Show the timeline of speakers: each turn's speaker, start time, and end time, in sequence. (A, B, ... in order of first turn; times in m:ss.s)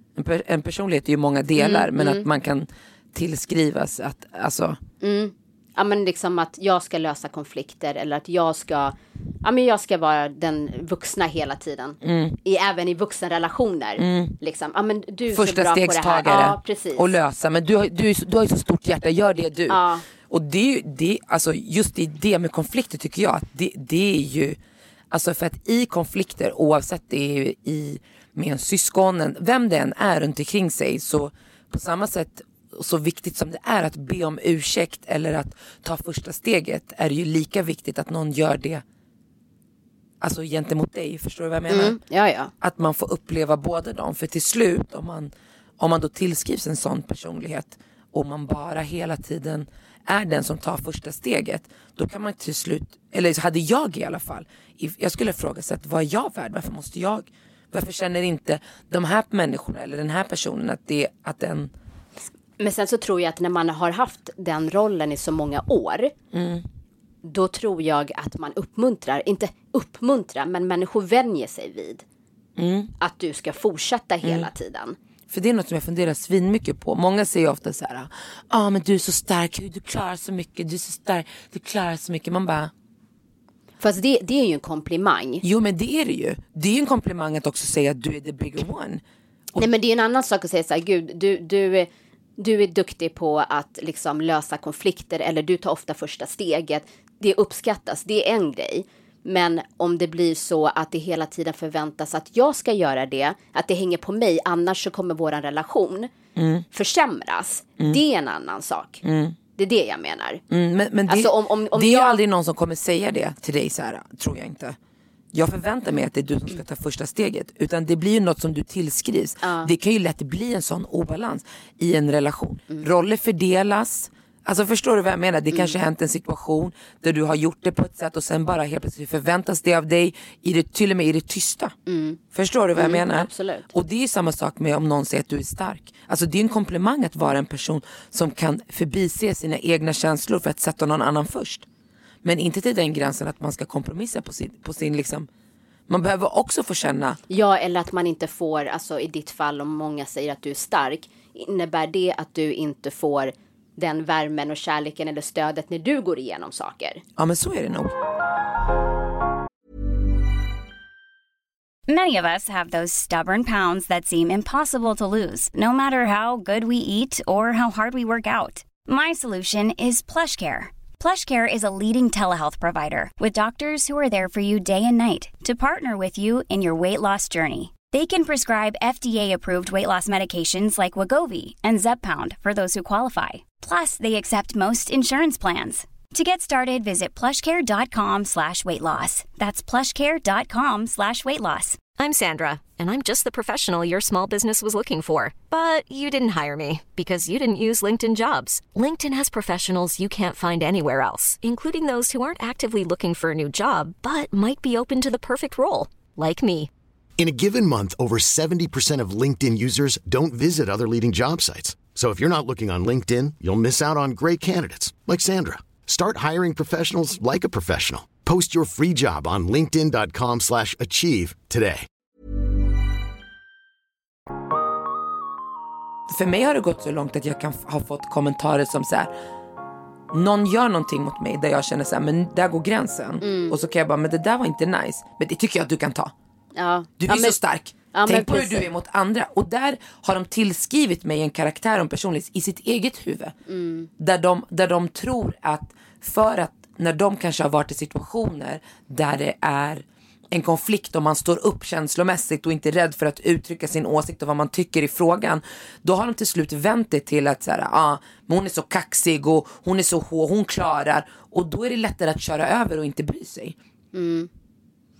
0:00.2-0:04.8 A
0:01.6-0:02.3 B
0:05.0-0:17.1 B
0:12.0-0:12.4 A
0:14.0-0:14.3 A
0:15.3-0:24.6 A
0:19.7-0:20.0 B
0:25.1-0:38.8 A
0:40.2-0:42.0 A
0:41.7-0:42.5 B
0:42.6-1:01.7 A
1:02.6-1:06.1 B
1:06.3-1:06.7 A
1:07.2-1:12.0 B
1:12.6-1:12.9 A
1:13.0-1:15.0 B
1:14.2-1:14.5 A
1:15.3-1:22.7 A
1:23.8-1:25.4 B
1:25.4-1:29.0 A
1:29.6-1:46.1 B
1:46.4-1:46.6 A
1:46.7-1:49.0 B
1:49.0-1:49.4 A
1:49.6-1:50.4 B
1:50.5-1:54.8 A
1:51.1-1:52.2 B
1:55.3-2:11.7 A
1:59.4-1:59.7 B
2:11.9-2:12.2 B
2:12.3-2:21.6 A
2:12.8-2:13.7 B
2:22.2-2:25.3 A
2:25.9-2:27.2 A
2:27.3-2:37.0 B
2:37.2-2:37.9 A
2:41.9-3:11.8 C
3:12.0-3:26.7 D
3:27.2-3:41.9 E
3:46.1-3:49.1 A
3:50.1-3:56.1 A
3:53.2-3:53.6 B
3:56.6-3:57.4 B
3:57.0-4:03.3 A
3:57.9-3:58.7 B
4:03.5-4:03.9 B
4:04.0-4:23.6 A
4:23.9-4:24.3 B